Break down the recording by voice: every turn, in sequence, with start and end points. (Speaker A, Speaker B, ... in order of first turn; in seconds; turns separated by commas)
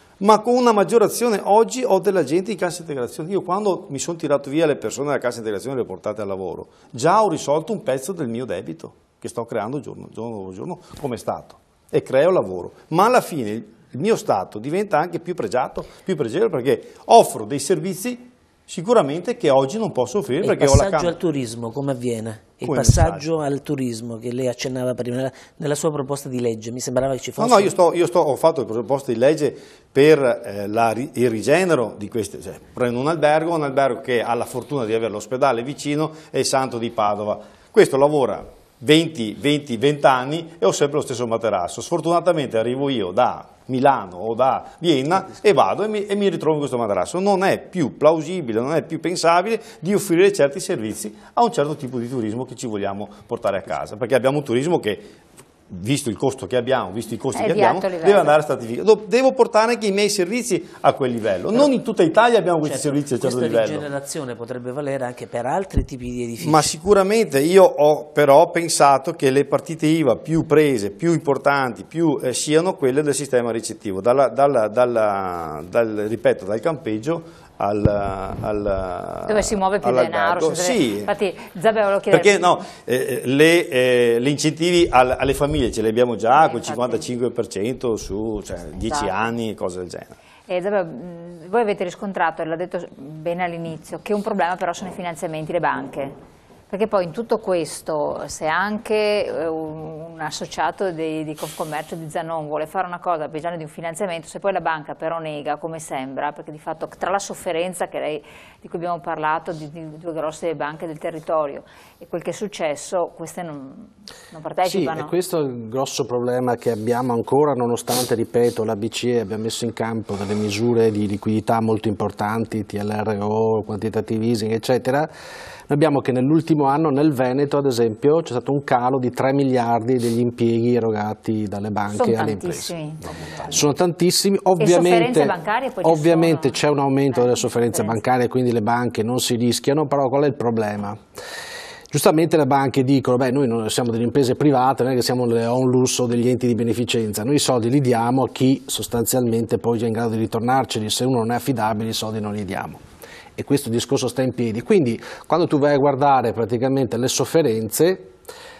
Speaker A: 0.2-21.1, Speaker B: 20.4-27.7, Speaker A: 22.6-23.3, Speaker A: 27.4-55.1, Speaker A: 55.7-63.9, Speaker C: 57.4-58.3, Speaker B: 62.6-66.7, Speaker A: 66.4-81.1, Speaker C: 79.3-82.6, Speaker A: 82.1-90.2, Speaker C: 86.3-87.0, Speaker C: 88.8-89.1, Speaker C: 90.5-96.1, Speaker C: 96.7-115.1, Speaker D: 114.7-125.1, Speaker D: 125.7-132.7, Speaker C: 131.9-133.4, Speaker D: 133.4-141.0, Speaker C: 134.6-136.6, Speaker C: 137.1-138.0, Speaker D: 141.9-152.8, Speaker D: 153.4-158.1